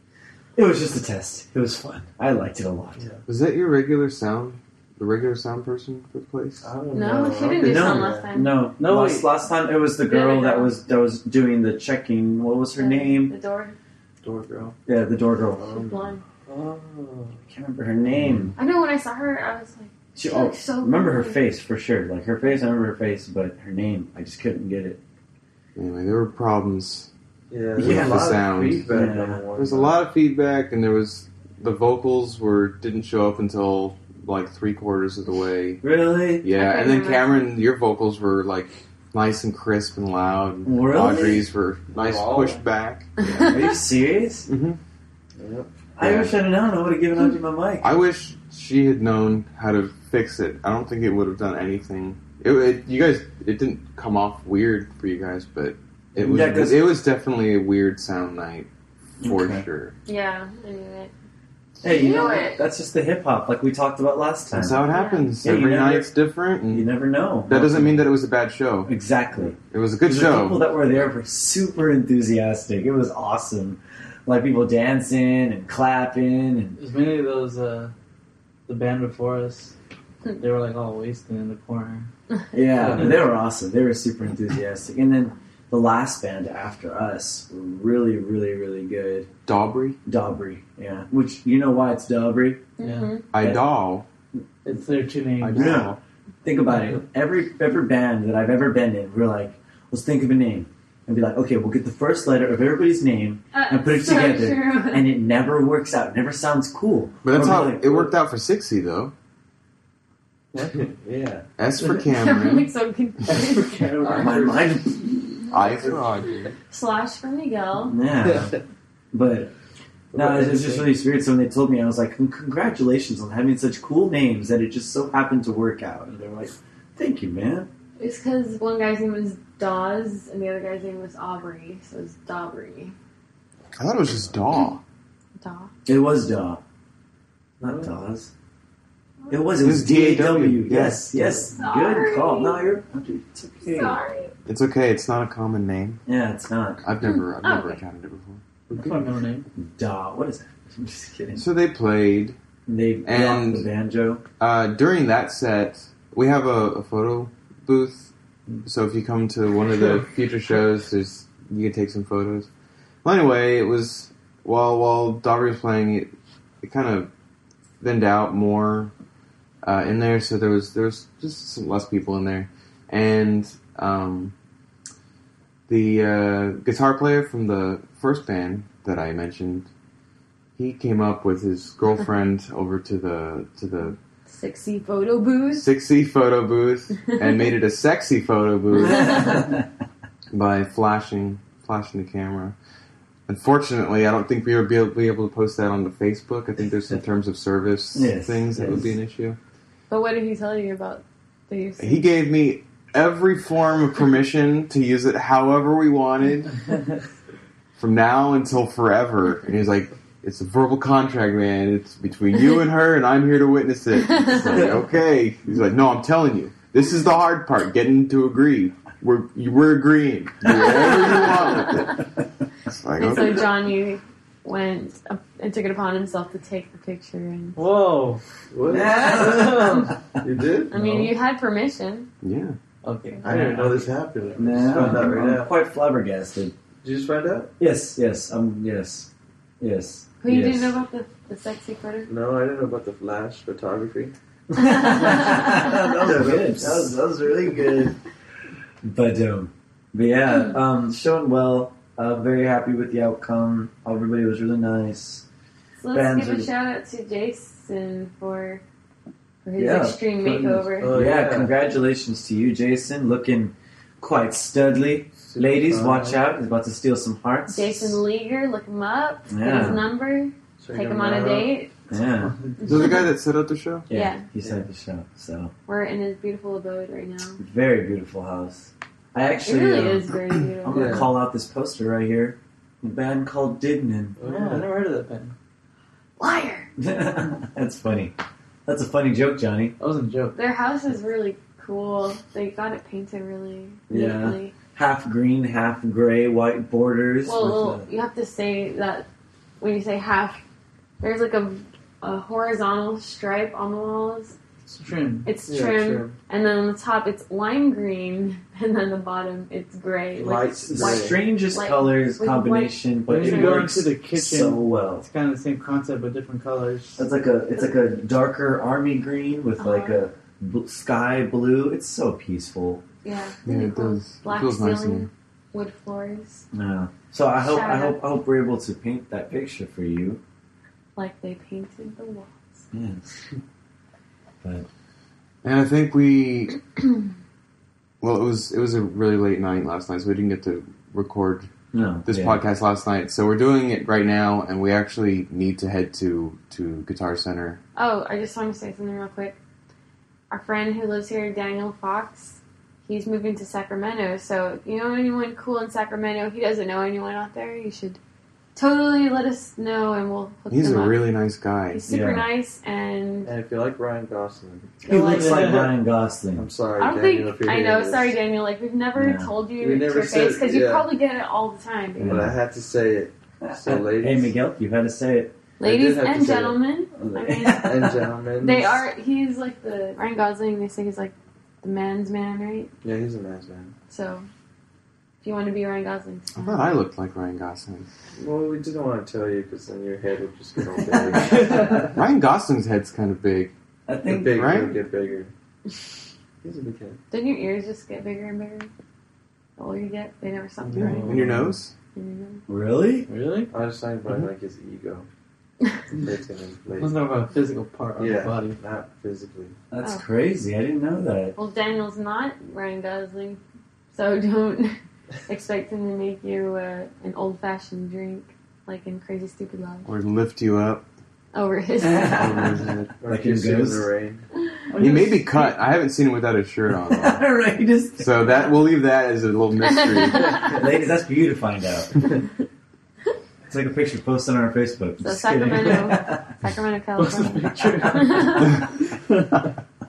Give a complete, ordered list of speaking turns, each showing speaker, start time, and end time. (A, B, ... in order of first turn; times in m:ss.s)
0:00.6-0:03.0 A
0:03.3-0:06.7 B
0:06.6-0:08.3 C
0:06.9-0:08.7 D
0:07.6-0:13.3 A
0:08.8-0:09.3 E
0:10.0-0:10.8 D
0:12.8-0:13.8 D
0:14.2-0:14.8 C
0:14.9-0:15.7 A
0:15.6-0:17.4 C
0:15.6-0:16.2 D
0:17.5-0:18.5 A
0:18.6-0:21.6 D
0:20.2-0:25.0 A
0:25.8-0:27.1 B
0:27.5-0:30.0 C
0:27.8-0:29.4 A
0:27.8-0:28.9 B
0:29.6-0:35.8 B
0:35.8-0:36.4 A
0:36.4-0:43.6 B
0:36.5-0:37.4 D
0:40.6-0:41.5 A
0:41.9-0:42.6 C
0:43.2-0:43.7 D
0:43.4-0:44.5 A
0:44.5-0:44.8 B
0:45.4-0:45.7 C
0:46.0-0:48.0 A
0:46.0-0:46.3 B
0:47.8-0:58.7 B
0:56.2-0:56.9 A
0:59.2-0:59.7 A
0:59.2-1:00.0 B
1:00.1-1:01.1 D
1:01.8-1:04.8 A
1:01.8-1:02.6 D
1:04.5-1:06.9 B
1:04.9-1:05.3 D
1:05.4-1:06.1 A
1:06.7-1:08.1 A
1:07.5-1:08.9 B
1:08.9-1:16.8 A
1:09.6-1:10.9 B
1:16.8-1:17.9 E
1:18.7-1:19.8 E
1:20.4-1:22.1 E
1:22.5-1:29.3 A
1:22.8-1:23.2 C
1:29.5-1:30.0 B
1:30.0-1:32.7 A
1:32.8-1:33.3 D
1:32.8-1:33.2 E
1:33.3-1:34.1 B
1:33.4-1:33.6 A
1:34.6-1:35.9 E
1:35.4-1:36.0 B
1:35.6-1:48.2 A
1:43.5-1:45.1 D
1:47.2-1:49.1 B
1:50.5-1:51.5 C
1:51.6-1:52.7 B
1:52.0-1:53.9 D
1:53.3-1:54.6 E
1:54.0-1:54.8 C
1:54.1-1:55.7 A
1:55.5-1:56.5 B
1:55.6-1:56.1 C
1:56.7-1:58.0 D
1:57.8-1:58.6 A
1:58.3-1:58.6 C
1:59.1-1:59.5 A
2:00.1-2:00.9 C
2:00.1-2:07.7 A
2:08.0-2:13.0 D
2:13.8-2:14.8 B
2:15.4-2:15.7 D
2:15.9-2:16.6 A
2:17.6-2:18.3 A
2:17.6-2:17.9 C
2:19.2-2:19.5 D
2:19.3-2:24.0 A
2:19.6-2:21.2 B
2:21.5-2:22.6 D
2:23.7-2:24.3 D
2:24.5-2:26.0 B
2:26.1-2:26.8 A
2:26.8-2:28.4 B
2:27.4-2:27.8 D
2:28.7-2:29.5 E
2:29.6-2:31.5 A
2:31.4-2:32.4 B
2:32.7-2:34.2 A
2:33.0-2:33.7 B
2:34.4-2:38.1 B
2:38.6-2:42.5 B
2:43.0-2:46.1 B
2:46.6-2:47.1 B
2:47.8-2:48.9 B
2:49.6-2:54.3 B
2:55.7-2:59.7 B
3:00.6-3:04.0 B
3:04.3-3:05.7 D
3:05.6-3:09.4 B
3:07.1-3:07.4 D
3:08.8-3:09.7 A
3:08.9-3:09.4 D
3:10.3-3:12.6 B
3:13.3-3:19.4 B
3:18.0-3:19.0 A
3:19.9-3:22.1 D
3:21.8-3:26.6 B
3:27.8-3:42.0 B
3:34.5-3:34.7 A
3:40.5-3:41.9 D
3:40.6-3:41.2 A
3:42.6-3:43.5 B
3:43.0-3:47.6 D
3:47.6-3:48.2 E
3:48.5-3:50.7 C
3:48.7-3:49.9 A
3:49.2-3:49.9 E
3:50.7-3:52.1 D
3:50.8-3:51.1 E
3:52.2-3:52.6 B
3:52.8-3:54.0 E
3:53.2-3:55.5 C
3:54.4-3:56.5 A
3:54.7-3:55.1 E
3:56.8-3:57.5 C
3:57.6-4:00.8 A
4:00.2-4:02.1 D
4:02.1-4:04.1 C
4:04.5-4:08.0 A
4:04.7-4:05.6 D
4:05.4-4:07.0 C
4:08.8-4:15.3 A
4:15.8-4:18.6 D
4:15.9-4:16.5 A
4:19.4-4:21.0 D
4:19.6-4:28.0 A
4:20.8-4:21.5 C
4:25.3-4:26.2 C
4:27.5-4:31.7 D
4:29.3-4:29.9 A
4:30.6-4:31.5 C
4:31.9-4:32.4 A
4:32.4-4:32.7 E
4:32.6-4:33.0 D
4:32.6-4:33.9 B
4:33.9-4:35.5 A
4:33.9-4:34.2 D
4:35.7-4:37.4 D
4:37.4-4:44.2 A
4:39.4-4:41.1 D
4:40.7-4:41.1 C
4:44.2-4:44.7 C
4:44.2-4:45.3 E
4:46.2-4:46.7 D
4:46.8-4:49.8 A
4:49.8-4:50.4 E
4:50.3-4:54.5 D
4:53.9-4:57.9 A
4:57.2-4:59.1 D
4:59.6-5:00.4 D
5:01.0-5:04.4 D
5:04.7-5:05.3 E
5:05.2-5:13.6 D
5:05.5-5:06.2 C
5:10.2-5:11.2 C
5:10.7-5:15.1 A
5:13.1-5:17.1 E
5:13.3-5:13.6 C
5:17.0-5:22.8 A
5:19.6-5:20.0 D
5:23.0-5:26.4 D
5:23.5-5:25.1 B
5:26.5-5:30.2 A
5:27.4-5:28.0 D
5:31.0-5:32.7 D
5:32.7-5:33.2 A
5:34.4-5:34.7 A
5:35.4-5:36.6 B
5:38.0-5:41.5 B
5:41.7-5:42.4 A
5:42.1-5:47.6 B
5:47.8-5:49.4 D
5:50.3-5:58.0 D
5:58.6-6:01.0 D
6:00.5-6:01.8 B
6:01.7-6:03.3 D
6:01.9-6:02.3 A
6:03.2-6:04.7 C
6:04.8-6:05.6 D
6:04.8-6:06.5 A
6:05.1-6:05.7 E
6:06.4-6:08.2 C
6:06.8-6:12.3 D
6:09.0-6:09.3 A
6:09.6-6:10.9 C
6:12.0-6:12.4 A
6:12.0-6:14.3 C
6:13.4-6:15.4 A
6:15.6-6:22.7 D
6:15.6-6:16.6 C
6:17.0-6:18.1 A
6:17.6-6:18.9 C
6:22.8-6:23.8 C
6:23.9-6:24.3 D
6:25.2-6:26.7 D
6:26.4-6:27.9 B
6:28.2-6:31.9 C
6:30.7-6:31.8 A
6:31.2-6:31.9 E
6:31.9-6:33.5 B
6:33.9-6:34.4 A
6:34.0-6:35.3 C
6:34.3-6:34.8 B
6:36.4-6:37.0 C
6:37.1-6:38.7 D
6:39.6-6:42.4 D
6:40.6-6:41.5 E
6:40.7-6:41.7 B
6:42.5-6:43.1 A
6:43.1-6:43.5 E
6:43.5-6:45.1 C
6:46.0-6:47.0 C
6:46.8-6:48.6 E
6:48.0-6:49.6 C
6:49.7-6:51.4 A
6:51.4-6:59.9 D
6:59.8-7:00.8 B
7:01.3-7:02.4 D
7:01.8-7:03.9 A
7:02.0-7:02.9 B
7:03.0-7:04.2 C
7:04.7-7:05.4 E
7:04.8-7:07.3 B
7:06.7-7:08.3 A
7:08.0-7:10.5 B
7:09.8-7:10.6 D
7:10.3-7:12.0 A
7:13.5-7:16.3 A
7:15.0-7:18.7 D
7:17.0-7:18.9 E